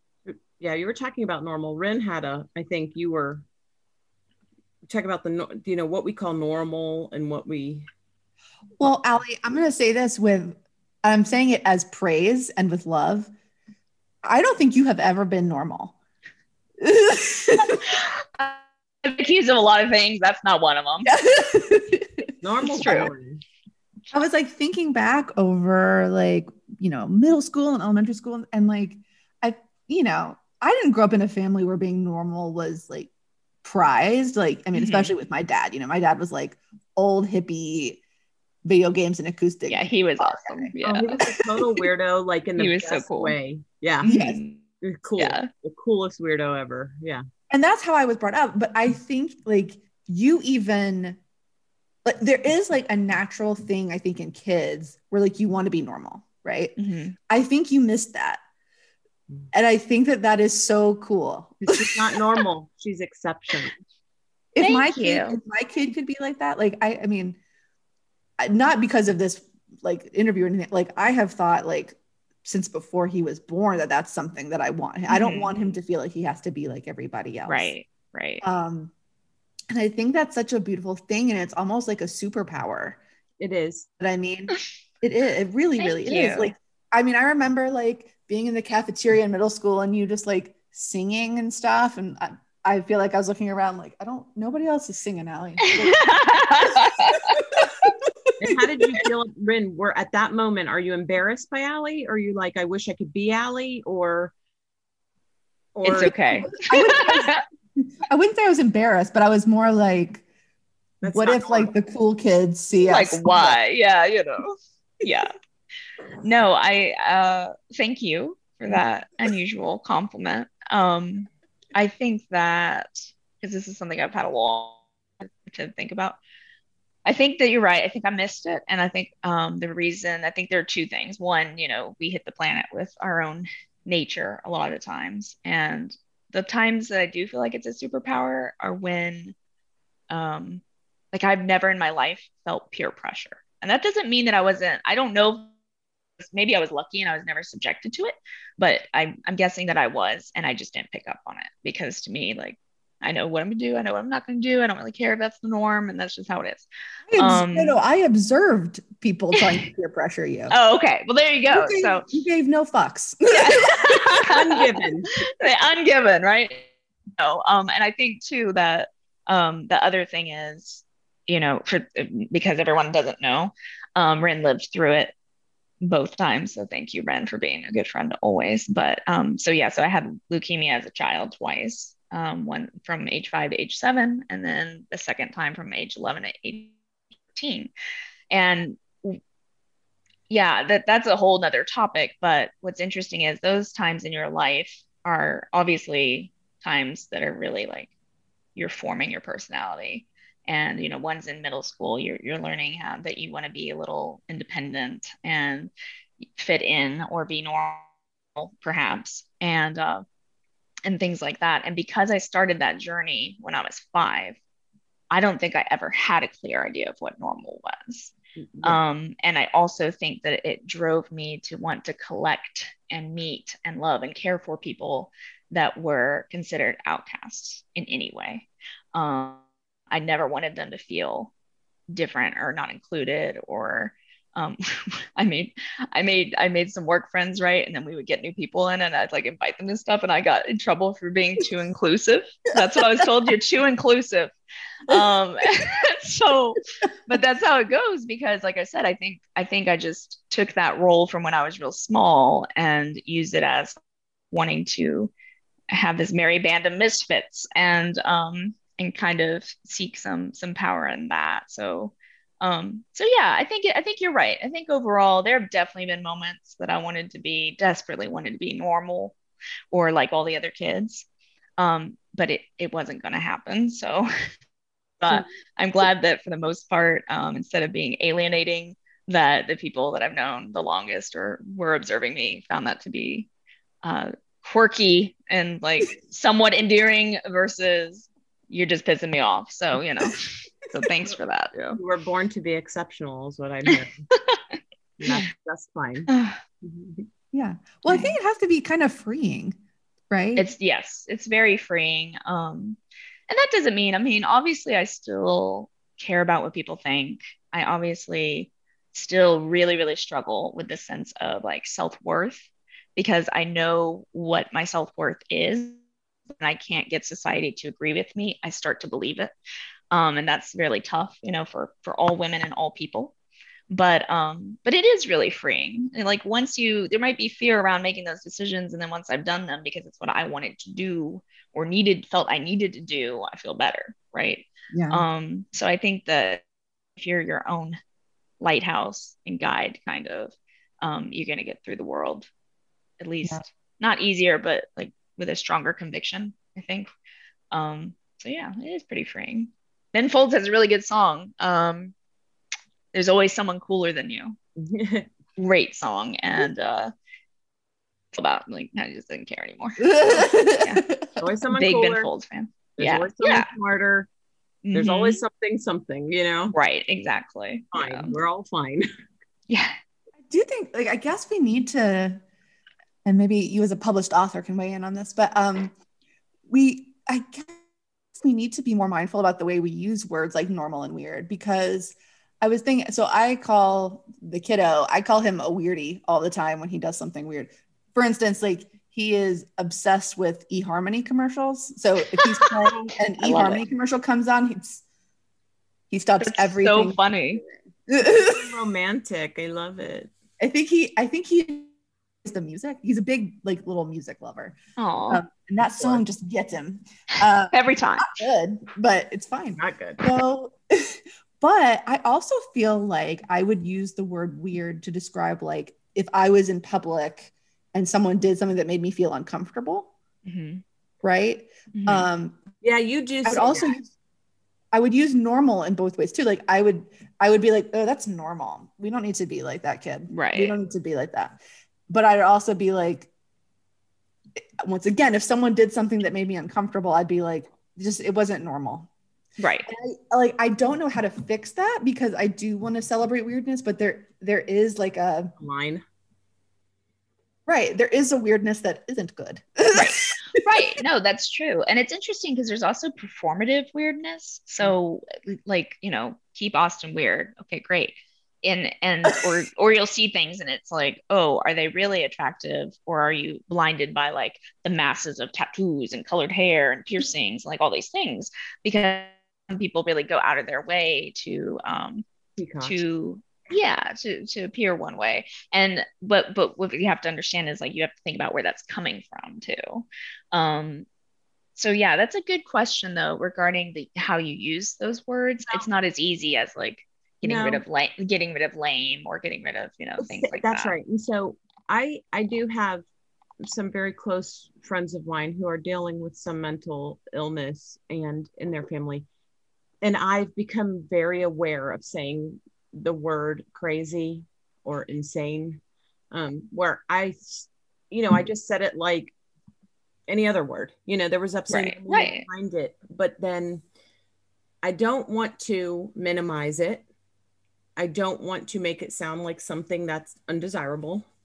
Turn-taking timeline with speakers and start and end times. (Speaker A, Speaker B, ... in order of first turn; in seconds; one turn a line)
Speaker A: 0.3-3.5
Speaker A: 4.9-7.9
Speaker B: 8.8-13.3
Speaker B: 14.2-15.9
Speaker B: 16.8-17.8
Speaker C: 19.0-21.2
Speaker B: 21.1-23.1
Speaker A: 22.4-23.4
Speaker C: 22.7-23.1
Speaker B: 24.1-33.1
Speaker B: 33.6-38.0
Speaker C: 34.7-35.1
Speaker B: 38.6-41.9
Speaker C: 39.7-41.3
Speaker A: 40.8-44.1
Speaker C: 42.6-43.4
Speaker B: 44.0-44.4
Speaker C: 44.0-44.6
Speaker A: 44.8-47.2
Speaker C: 45.2-45.5
Speaker B: 47.5-51.2
Speaker B: 52.0-56.8
Speaker C: 56.8-57.2
Speaker B: 57.3-58.4
Speaker B: 59.5-62.1
Speaker A: 61.6-63.8
Speaker B: 64.5-67.4
Speaker C: 64.6-65.4
Speaker B: 68.4-77.7
Speaker C: 75.1-75.5
Speaker C: 77.5-78.4
Speaker B: 78.4-78.9
Speaker B: 79.7-83.0
Speaker A: 83.4-83.9
Speaker B: 84.0-97.9
Speaker C: 85.8-86.5
Speaker C: 95.6-97.4
Speaker A: 98.4-104.3
Speaker B: 98.5-99.0
Speaker A: 105.8-106.5
Speaker C: 105.8-107.4
Speaker B: 106.6-110.2
Speaker A: 111.0-111.7
Speaker B: 111.1-113.6
Speaker C: 112.9-115.3
Speaker C: 116.2-126.2
Speaker C: 127.1-139.3
Speaker C: 140.1-145.5
Speaker C: 146.2-157.8
Speaker B: 157.1-160.5
Speaker C: 160.5-162.1
Speaker B: 161.5-164.0
Speaker C: 163.3-164.6
Speaker A: 164.3-165.1
Speaker C: 165.3-175.1
Speaker C: 175.8-186.7
Speaker C: 187.3-187.7
Speaker C: 188.3-189.2
Speaker C: 190.3-197.9
Speaker C: 198.6-210.0
Speaker C: 210.8-214.4
Speaker C: 215.1-231.3
Speaker C: 231.9-244.3
Speaker C: 244.9-253.8
Speaker C: 254.3-255.1
Speaker C: 255.7-269.2
Speaker C: 269.7-271.1
Speaker C: 271.6-274.1
Speaker C: 275.0-283.3
Speaker C: 283.8-291.8
Speaker A: 291.7-294.1
Speaker C: 293.7-295.3
Speaker A: 295.0-296.1
Speaker C: 296.1-296.4
Speaker A: 296.6-297.1
Speaker B: 297.3-299.6
Speaker C: 297.9-298.1
Speaker B: 300.1-300.5
Speaker C: 300.4-302.8
Speaker C: 303.3-312.4
Speaker C: 312.9-315.8
Speaker C: 316.4-319.3
Speaker C: 319.9-323.1
Speaker C: 323.7-336.4
Speaker B: 334.7-335.1
Speaker C: 336.9-337.8
Speaker C: 338.4-342.3
Speaker C: 343.0-346.9
Speaker C: 347.5-351.9
Speaker C: 352.9-354.4
Speaker A: 354.6-355.1
Speaker C: 355.4-356.9
Speaker C: 358.1-360.9
Speaker B: 359.8-361.2
Speaker A: 361.2-362.1
Speaker C: 361.5-363.5
Speaker A: 362.8-364.1
Speaker C: 364.6-365.2
Speaker A: 364.7-366.6
Speaker C: 366.5-368.2
Speaker A: 367.7-368.9
Speaker C: 369.5-369.8
Speaker B: 370.3-372.2
Speaker B: 373.1-375.7
Speaker B: 376.5-377.6
Speaker B: 378.1-394.8
Speaker C: 392.2-392.5
Speaker C: 393.2-393.6
Speaker B: 395.9-398.5
Speaker C: 396.2-397.4
Speaker A: 398.0-400.1
Speaker B: 400.4-401.7
Speaker B: 402.2-404.6
Speaker C: 404.8-405.2
Speaker B: 405.1-419.9
Speaker A: 405.8-406.0
Speaker C: 407.5-408.2
Speaker A: 409.6-410.0
Speaker C: 420.2-420.6
Speaker B: 421.0-422.4
Speaker C: 421.7-422.1
Speaker A: 422.6-423.7
Speaker B: 423.2-423.9
Speaker B: 424.7-433.1
Speaker C: 430.1-430.6
Speaker B: 434.6-438.9
Speaker C: 439.4-439.7
Speaker B: 439.7-445.3
Speaker A: 445.4-445.8
Speaker B: 447.5-450.4
Speaker C: 449.7-472.1
Speaker A: 472.4-472.8
Speaker C: 472.6-480.9
Speaker C: 481.6-490.7
Speaker A: 487.2-487.6
Speaker A: 490.0-492.9
Speaker A: 493.4-499.1
Speaker A: 499.8-509.1
Speaker A: 510.1-513.6
Speaker C: 511.5-512.3
Speaker A: 514.6-516.9
Speaker A: 517.8-521.1